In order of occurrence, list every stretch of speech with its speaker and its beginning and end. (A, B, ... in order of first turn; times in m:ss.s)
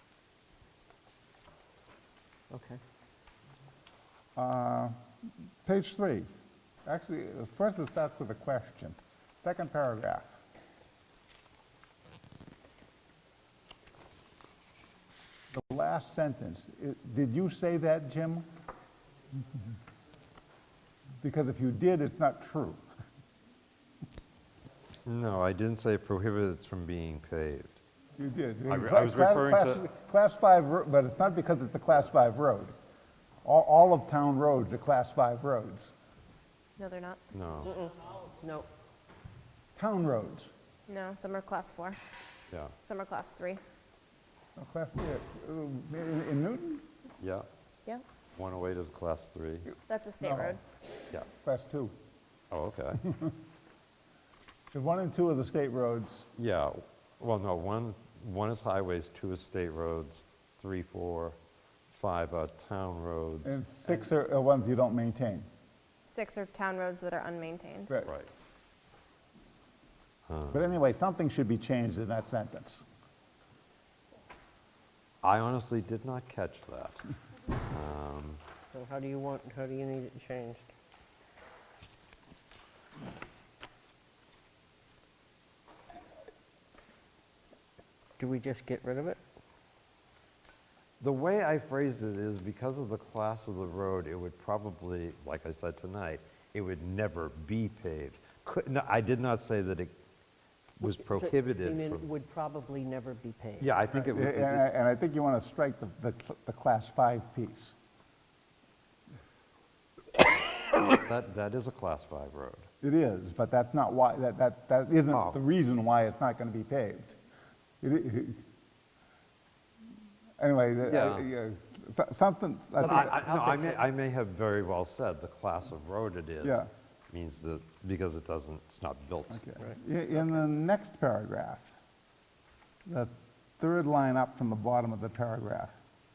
0:02.5-0:02.8 A
0:04.4-0:05.0 B
0:05.6-0:06.3 B
0:06.9-0:10.4 B
0:15.5-0:18.5 B
0:21.2-0:22.8 B
0:25.0-0:27.8 C
0:28.2-0:32.8 B
0:28.7-0:29.9 C
0:33.4-0:35.9 B
0:36.8-0:37.2 D
0:37.3-0:37.8 C
0:37.6-0:38.7 A
0:39.8-0:40.5 B
0:40.9-0:42.0 D
0:42.8-0:43.6 D
0:44.6-0:46.9 B
0:47.2-0:47.5 C
0:48.4-0:49.7 C
0:49.9-0:50.6 D
0:50.2-0:50.6 B
0:51.3-0:52.0 B
0:52.5-0:53.1 C
0:54.7-0:56.3 B
0:56.4-1:01.4 C
1:01.9-1:03.9 C
1:03.4-1:05.5 B
1:06.1-1:07.9 D
1:08.0-1:08.3 C
1:10.3-1:10.8 C
1:10.5-1:12.8 B
1:15.2-1:18.4 C
1:18.7-1:20.7 A
1:28.2-1:29.2 A
1:31.0-1:39.9 C
1:40.8-1:42.1 C
1:41.0-1:43.7 A
1:43.6-1:44.7 C
1:44.1-1:47.8 B
1:50.9-1:52.7 C
1:52.8-1:57.2 B
1:55.1-1:55.4 C
1:57.8-1:58.4 B
2:00.4-2:03.2 B
2:00.9-2:01.3 C
2:02.8-2:09.4 C
2:02.8-2:03.8 A
2:06.4-2:06.7 B
2:09.3-2:11.8 B
2:12.9-2:15.8 B